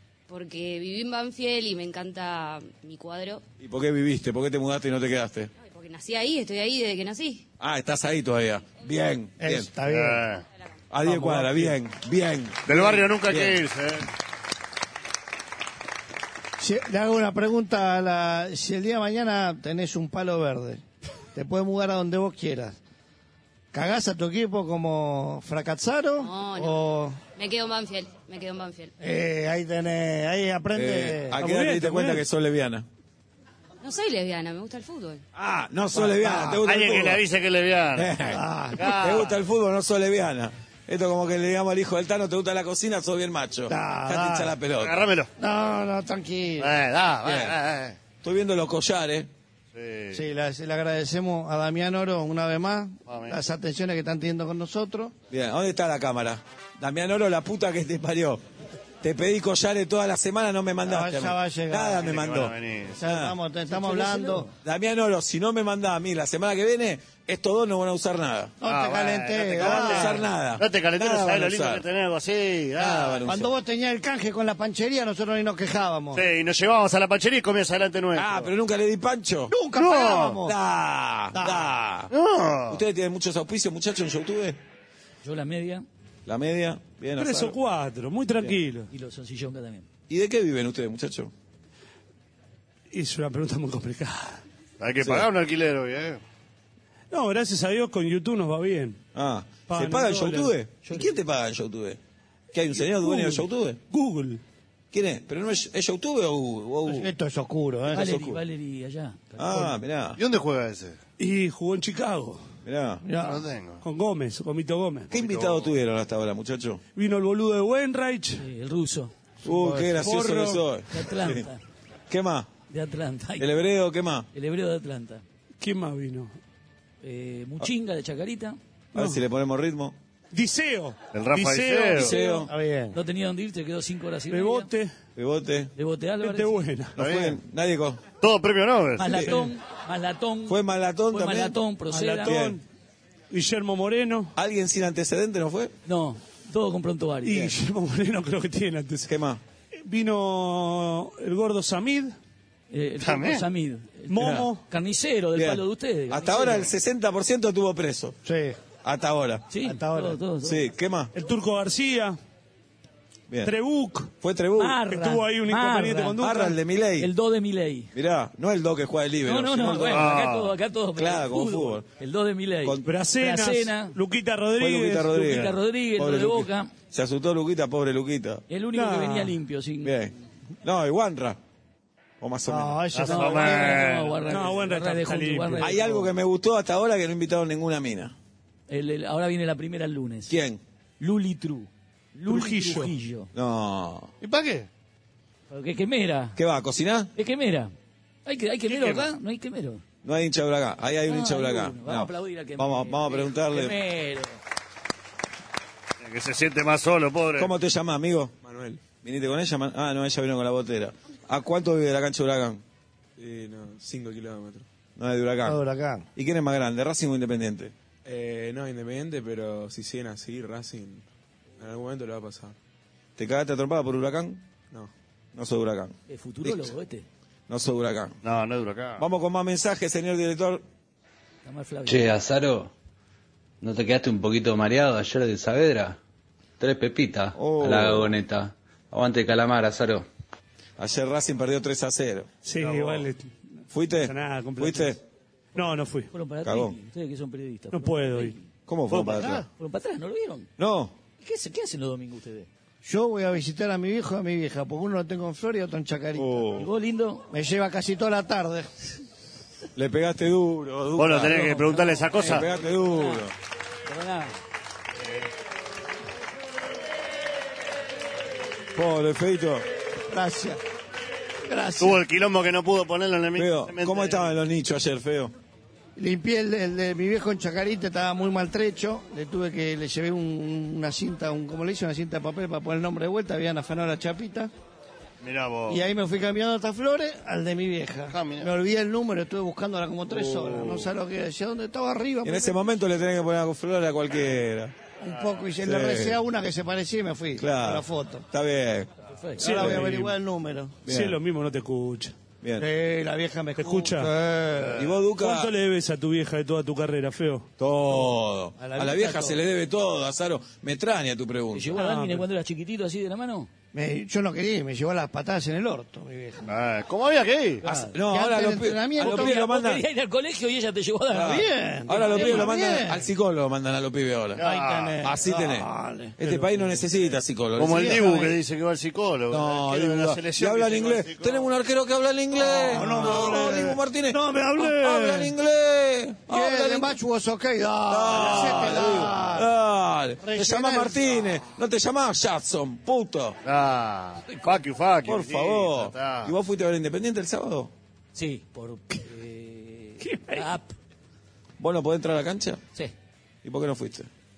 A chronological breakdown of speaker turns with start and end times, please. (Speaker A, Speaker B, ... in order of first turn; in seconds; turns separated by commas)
Speaker A: 0.3-3.4, Speaker B: 3.6-5.5, Speaker A: 5.6-7.5, Speaker B: 7.6-9.7, Speaker C: 9.4-10.3, Speaker D: 9.9-10.4, Speaker B: 10.9-13.6, Speaker C: 11.1-11.7, Speaker D: 12.7-14.0, Speaker C: 16.6-20.8, Speaker C: 21.3-22.8, Speaker C: 23.7-27.2, Speaker A: 26.2-28.9, Speaker C: 29.0-31.4, Speaker B: 30.7-32.9, Speaker E: 31.4-32.2, Speaker A: 33.8-35.2, Speaker B: 35.3-37.2, Speaker C: 35.9-36.6, Speaker D: 36.6-38.2, Speaker B: 38.0-45.1, Speaker C: 38.3-39.2, Speaker D: 38.8-39.3, Speaker C: 43.7-44.6, Speaker D: 44.8-45.3, Speaker C: 45.4-46.7, Speaker D: 46.6-48.0, Speaker B: 47.3-47.5, Speaker B: 48.2-49.3, Speaker D: 49.7-50.2, Speaker C: 50.1-55.1, Speaker D: 53.1-53.4, Speaker B: 55.3-58.4, Speaker B: 59.0-62.5, Speaker C: 60.8-62.2, Speaker D: 62.0-63.0, Speaker C: 62.9-64.5, Speaker B: 63.0-63.4, Speaker F: 63.7-64.5, Speaker B: 64.6-68.6, Speaker C: 68.6-70.3, Speaker D: 68.6-73.2, Speaker B: 69.6-71.8, Speaker B: 72.8-73.5, Speaker C: 73.2-76.3, Speaker D: 76.1-78.5, Speaker B: 78.2-79.6, Speaker C: 79.5-80.5, Speaker D: 79.7-80.4, Speaker B: 80.4-82.1, Speaker C: 81.3-81.7, Speaker D: 82.1-82.8, Speaker B: 82.7-84.6, Speaker F: 85.2-85.9, Speaker B: 86.3-87.6, Speaker E: 87.2-88.9, Speaker F: 88.9-89.9, Speaker B: 90.1-91.3, Speaker E: 92.9-94.4, Speaker D: 94.8-96.2, Speaker B: 95.0-95.3, Speaker E: 97.1-99.0, Speaker B: 99.2-102.0, Speaker E: 99.7-100.5, Speaker B: 102.5-103.8, Speaker E: 102.7-104.4, Speaker B: 104.9-107.1, Speaker C: 106.8-108.2, Speaker F: 107.9-109.8, Speaker B: 107.9-108.4, Speaker B: 109.4-110.2, Speaker D: 110.2-111.0, Speaker E: 111.2-112.4, Speaker B: 112.6-113.0, Speaker C: 113.0-113.4, Speaker D: 113.2-113.8, Speaker E: 113.8-115.1, Speaker B: 115.1-116.8, Speaker E: 117.0-118.4, Speaker F: 118.4-119.1, Speaker B: 119.4-121.5, Speaker E: 119.6-120.6, Speaker F: 120.9-121.6, Speaker B: 122.1-122.5, Speaker F: 122.7-123.5, Speaker B: 123.4-124.3, Speaker F: 124.3-125.2, Speaker E: 125.6-126.4, Speaker F: 127.0-128.6, Speaker E: 128.9-129.2, Speaker B: 128.9-130.0, Speaker E: 130.3-132.1, Speaker D: 131.1-132.1, Speaker B: 131.9-132.5, Speaker C: 132.5-133.0, Speaker F: 132.9-134.7, Speaker E: 134.3-134.9, Speaker B: 135.2-135.7, Speaker F: 135.8-136.6, Speaker E: 136.2-137.0, Speaker D: 137.0-137.4, Speaker B: 137.0-138.0, Speaker D: 138.2-139.2, Speaker F: 139.0-142.4, Speaker B: 139.1-139.4, Speaker B: 140.5-141.6, Speaker E: 141.9-142.6, Speaker B: 142.2-142.6, Speaker E: 143.3-144.3, Speaker B: 144.4-145.7, Speaker F: 145.9-147.5, Speaker E: 147.2-149.1, Speaker B: 149.1-149.4, Speaker E: 149.8-152.2, Speaker F: 152.7-156.7, Speaker D: 153.0-153.4, Speaker E: 154.1-154.6, Speaker B: 155.3-158.2, Speaker C: 158.2-158.6, Speaker B: 158.8-159.5, Speaker F: 159.5-160.7, Speaker C: 159.6-160.2, Speaker B: 160.4-161.1, Speaker E: 161.1-162.2, Speaker E: 163.4-164.1, Speaker B: 164.2-164.8, Speaker F: 164.6-166.2, Speaker E: 164.9-166.6, Speaker B: 166.2-167.1, Speaker F: 167.0-167.9, Speaker B: 167.9-170.2, Speaker F: 169.2-174.0, Speaker D: 169.9-170.5, Speaker B: 170.9-171.9, Speaker E: 172.9-175.3, Speaker B: 174.6-178.4, Speaker F: 175.1-176.7, Speaker F: 178.5-179.9, Speaker E: 178.8-179.3, Speaker B: 179.8-181.4, Speaker B: 182.2-182.8, Speaker C: 182.5-184.1, Speaker D: 182.9-184.2, Speaker F: 183.0-186.1, Speaker E: 184.3-185.8, Speaker B: 185.6-188.2, Speaker F: 188.7-190.4, Speaker B: 190.3-190.6, Speaker F: 191.0-193.3, Speaker E: 192.3-192.9, Speaker B: 193.3-194.1, Speaker D: 194.2-194.7, Speaker F: 195.5-196.4, Speaker B: 196.4-197.1, Speaker F: 197.2-197.7, Speaker F: 198.3-199.8, Speaker D: 198.7-199.1, Speaker B: 200.0-203.8, Speaker F: 201.1-204.4, Speaker D: 206.0-207.5, Speaker B: 207.4-208.3, Speaker G: 208.4-208.9, Speaker B: 208.9-212.6, Speaker G: 213.2-214.7, Speaker B: 215.0-215.6, Speaker C: 215.4-216.1, Speaker B: 216.2-217.7, Speaker G: 218.1-221.1, Speaker G: 221.6-222.6, Speaker B: 223.2-224.4, Speaker B: 225.3-226.7, Speaker F: 226.1-227.1, Speaker B: 227.5-228.2, Speaker D: 228.2-229.0, Speaker B: 229.0-230.6, Speaker F: 231.4-232.1, Speaker H: 231.9-232.7, Speaker H: 233.6-236.0, Speaker H: 236.6-240.1, Speaker B: 237.3-238.2, Speaker B: 240.8-242.3, Speaker E: 242.4-243.3, Speaker B: 243.7-245.0, Speaker E: 244.0-244.9, Speaker E: 245.6-246.1, Speaker F: 246.1-248.5, Speaker B: 246.4-246.8, Speaker E: 247.7-248.4, Speaker B: 248.7-249.4, Speaker D: 248.9-249.4, Speaker F: 249.6-250.5, Speaker B: 250.6-251.0, Speaker F: 251.2-252.5, Speaker C: 252.8-256.5, Speaker B: 256.2-256.7, Speaker F: 256.6-257.3, Speaker C: 257.3-258.7, Speaker B: 259.8-261.6, Speaker D: 261.0-262.5, Speaker F: 261.2-263.2, Speaker B: 262.2-263.3, Speaker F: 263.9-264.3, Speaker B: 268.8-269.6, Speaker C: 270.1-270.6, Speaker C: 271.5-272.0, Speaker D: 271.8-274.3, Speaker B: 273.4-275.3, Speaker C: 276.0-284.5, Speaker D: 285.2-285.8, Speaker C: 285.7-292.6, Speaker D: 288.1-288.5, Speaker B: 290.1-290.9, Speaker B: 292.2-294.7, Speaker C: 295.0-298.2, Speaker B: 295.6-296.2, Speaker B: 297.4-298.9, Speaker F: 299.1-299.6, Speaker E: 299.4-300.1, Speaker C: 299.4-300.8, Speaker B: 299.5-300.0, Speaker B: 300.9-301.2, Speaker E: 300.9-302.1, Speaker B: 302.4-302.7, Speaker C: 302.6-304.9, Speaker E: 303.6-304.1, Speaker B: 304.8-305.5, Speaker E: 305.2-307.5, Speaker B: 307.6-311.7, Speaker C: 308.6-309.4, Speaker F: 311.5-313.5, Speaker E: 311.7-312.2, Speaker C: 313.7-316.5, Speaker D: 316.5-317.6, Speaker F: 317.6-317.9, Speaker B: 317.7-319.8, Speaker C: 318.0-319.4, Speaker F: 319.0-322.5, Speaker B: 321.1-324.4, Speaker C: 321.2-323.1, Speaker D: 324.4-325.0, Speaker C: 324.4-326.6, Speaker B: 325.0-328.1, Speaker D: 327.6-331.5, Speaker C: 327.6-328.4, Speaker B: 329.3-337.0, Speaker C: 332.4-335.4, Speaker C: 336.3-339.5, Speaker B: 337.9-343.4, Speaker C: 340.2-341.4, Speaker D: 343.4-346.3, Speaker F: 344.3-344.6, Speaker B: 345.1-347.7, Speaker F: 348.1-350.7, Speaker E: 350.0-350.5, Speaker B: 351.6-352.6, Speaker B: 353.4-354.1